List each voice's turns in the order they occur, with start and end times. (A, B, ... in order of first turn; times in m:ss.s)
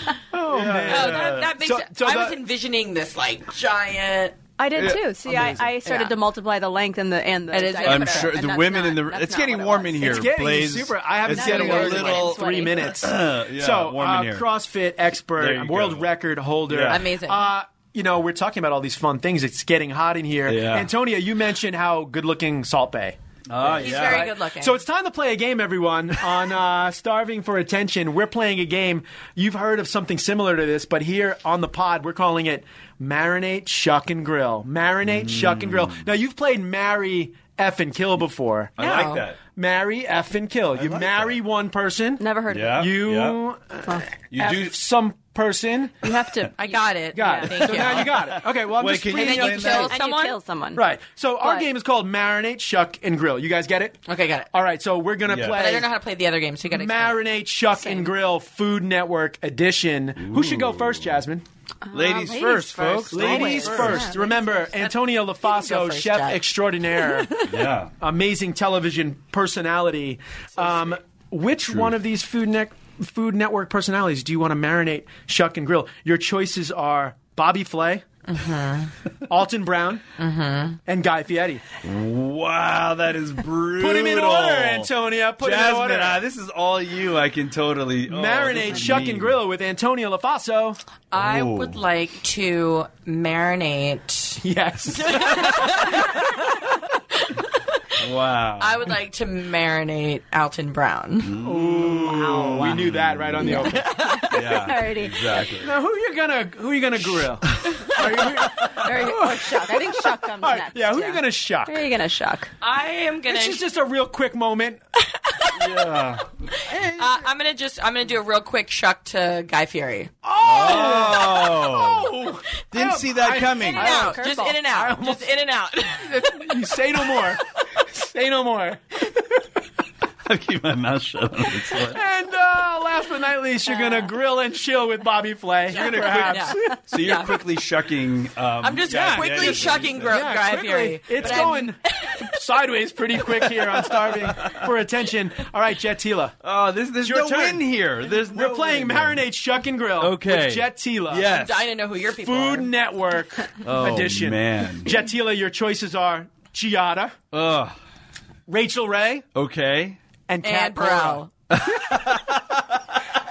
0:00.3-0:02.4 A
0:00.5-0:01.5 B
0:00.9-0:04.4 C
0:04.6-0:10.3 D
0:04.8-0:05.1 B
0:05.2-0:05.8 A
0:05.8-0:06.2 C
0:07.5-0:09.0 C
0:07.8-0:14.5 B
0:10.0-0:46.1 A
0:11.3-0:13.1 D
0:11.4-0:12.2 C
0:15.3-0:16.1 B
0:16.7-0:17.0 B
0:16.9-0:17.5 C
0:20.5-0:20.9 B
0:23.5-0:24.3 B
0:23.7-0:24.8 C
0:35.1-0:36.0 B
0:38.8-0:39.4 B
0:38.8-0:39.2 C
0:40.8-0:41.4 B
0:42.2-0:42.9 D
0:42.5-0:43.4 B
0:44.3-0:44.8 B
0:46.0-0:47.5 D
0:46.6-0:48.4 C
0:47.1-0:49.9 A
0:48.0-0:49.9 B
0:49.1-0:50.4 C
0:49.6-0:50.9 D
0:50.8-0:55.9 A
0:51.4-0:51.7 D
0:54.1-0:54.5 C
0:55.3-0:55.6 B
0:55.4-0:57.2 C
0:56.7-1:01.4 A
0:57.8-0:58.1 D
1:00.2-1:01.2 B
1:01.9-1:04.5 D
1:01.9-1:04.1 B
1:03.1-1:18.0 A
1:04.7-1:06.4 C
1:07.4-1:07.9 B
1:18.3-1:18.9 C
1:19.3-1:20.0 A
1:20.2-1:20.8 C
1:20.9-1:21.6 A
1:21.8-1:29.4 B
1:23.8-1:26.2 A
1:28.0-1:30.8 A
1:31.1-1:34.4 C
1:31.2-1:31.8 B
1:34.4-1:36.4 A
1:34.9-1:36.4 C
1:38.0-1:38.9 B
1:38.6-1:41.4 C
1:41.2-1:45.8 B
1:41.4-1:44.3 A
1:42.0-1:42.7 D
1:43.4-1:45.5 D
1:45.6-1:51.8 A
1:47.6-1:48.7 B
1:48.6-1:52.5 D
1:52.6-1:53.6 C
1:53.3-1:54.8 A
1:55.2-1:55.9 C
1:55.5-1:56.3 B
1:56.6-2:00.1 C
1:56.7-1:57.0 A
2:00.2-2:05.3 A
2:00.4-2:02.1 B
2:00.7-2:00.9 C
2:02.7-2:04.2 B
2:03.6-2:06.6 C
2:03.7-2:04.6 D
2:05.9-2:09.5 A
2:10.2-2:12.0 B
2:11.6-2:16.8 A
2:15.7-2:17.4 C
2:15.7-2:20.4 B
2:18.6-2:22.4 C
2:18.9-2:26.4 A
2:21.2-2:21.5 B
2:23.6-2:24.7 B
2:26.4-2:29.2 B
2:27.0-2:31.3 A
2:30.0-2:31.7 B
2:31.3-2:32.7 C
2:32.2-2:37.2 A
2:33.6-2:35.0 B
2:37.3-2:37.8 B
2:38.5-2:39.3 A
2:39.4-2:40.0 B
2:40.3-2:42.2 A
2:40.4-2:41.3 C
2:41.5-2:43.0 B